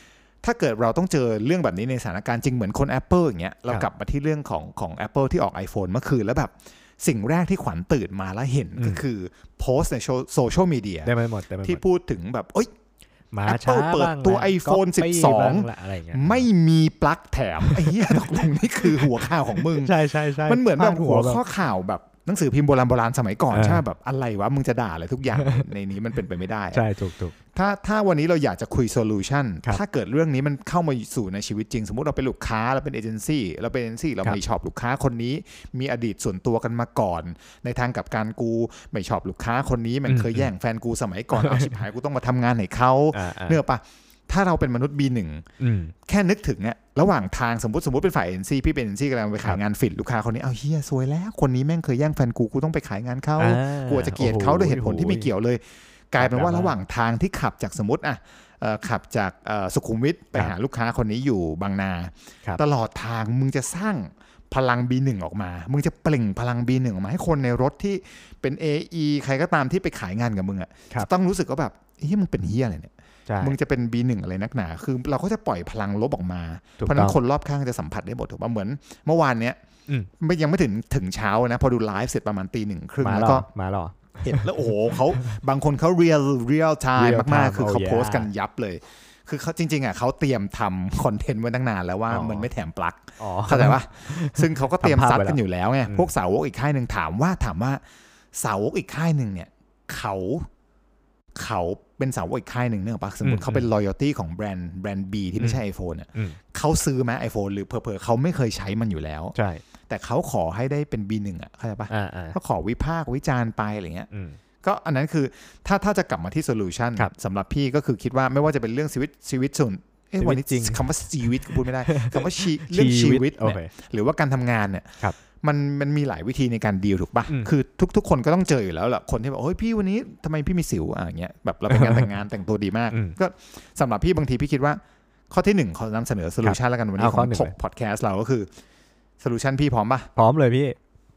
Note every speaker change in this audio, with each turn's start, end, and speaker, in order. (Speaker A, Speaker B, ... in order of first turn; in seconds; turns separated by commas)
Speaker A: 0.4-11.1, Speaker B: 8.8-9.0, Speaker B: 11.1-11.8, Speaker A: 11.6-12.7, Speaker B: 13.3-16.5, Speaker A: 13.5-19.9, Speaker B: 17.6-18.2, Speaker B: 18.9-21.4, Speaker A: 20.4-26.8, Speaker B: 23.5-23.8, Speaker B: 25.4-25.6, Speaker B: 26.7-27.4, Speaker A: 27.5-45.5, Speaker B: 40.1-40.5, Speaker B: 41.4-41.8, Speaker B: 43.1-43.6, Speaker B: 45.6-45.9, Speaker A: 46.1-79.6, Speaker B: 53.4-55.3, Speaker B: 56.2-56.8, Speaker B: 73.3-73.6, Speaker B: 76.8-77.2, Speaker A: 80.2-83.5, Speaker B: 83.0-84.7, Speaker A: 84.2-97.8, Speaker B: 87.0-88.3, Speaker B: 92.1-92.5, Speaker B: 93.2-96.1, Speaker A: 98.3-100.5, Speaker A: 101.4-109.3, Speaker B: 103.2-103.7, Speaker B: 109.3-109.6, Speaker A: 109.9-114.1, Speaker B: 111.9-112.4, Speaker B: 114.1-114.4, Speaker A: 114.6-138.5, Speaker B: 120.2-123.7, Speaker B: 131.7-132.1, Speaker B: 132.9-133.2, Speaker B: 136.4-137.6, Speaker A: 139.2-140.1, Speaker B: 140.2-140.8